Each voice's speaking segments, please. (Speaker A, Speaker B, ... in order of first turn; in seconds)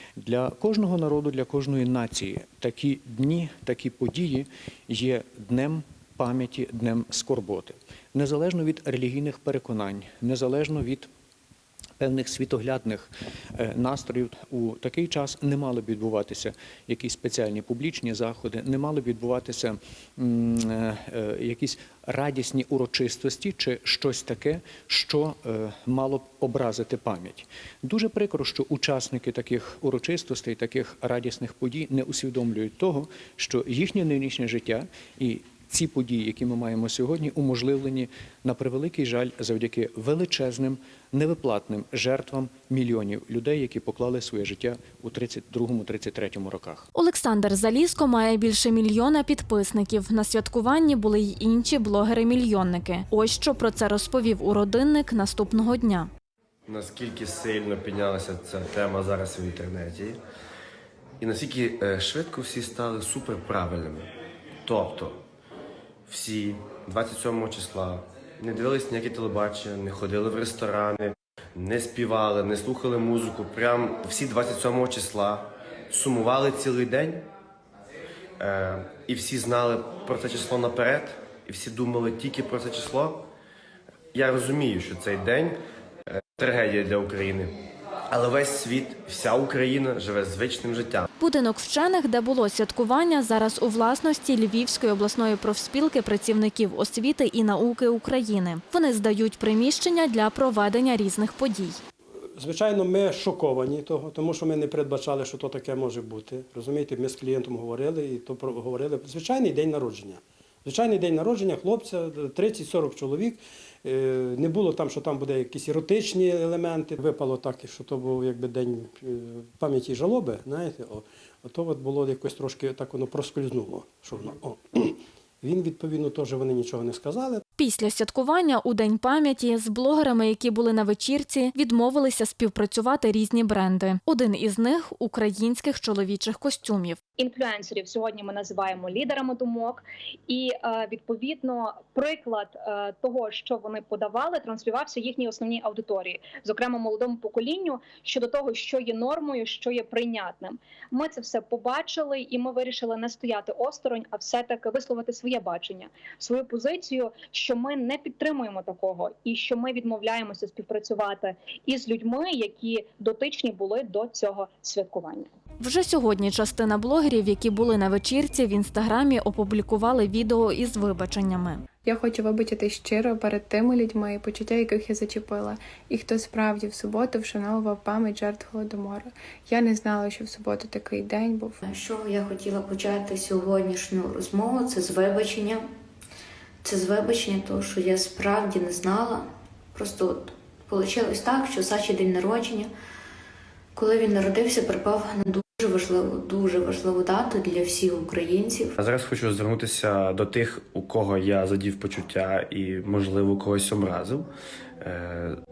Speaker A: 0.2-11.1, 12.0-46.9
Speaker B: 46.9-56.1, 91.2-101.8, 127.6-137.0, 165.6-171.6
Speaker C: 56.7-60.2, 61.2-64.1, 64.7-65.2, 66.1-77.3, 78.4-83.2, 84.1-85.5, 86.1-87.5, 88.1-91.1, 198.8-204.3, 204.8-205.3
Speaker D: 102.4-127.4
Speaker E: 137.2-165.3
Speaker F: 171.8-181.6
Speaker G: 181.6-185.7, 186.6-192.7, 193.8-198.7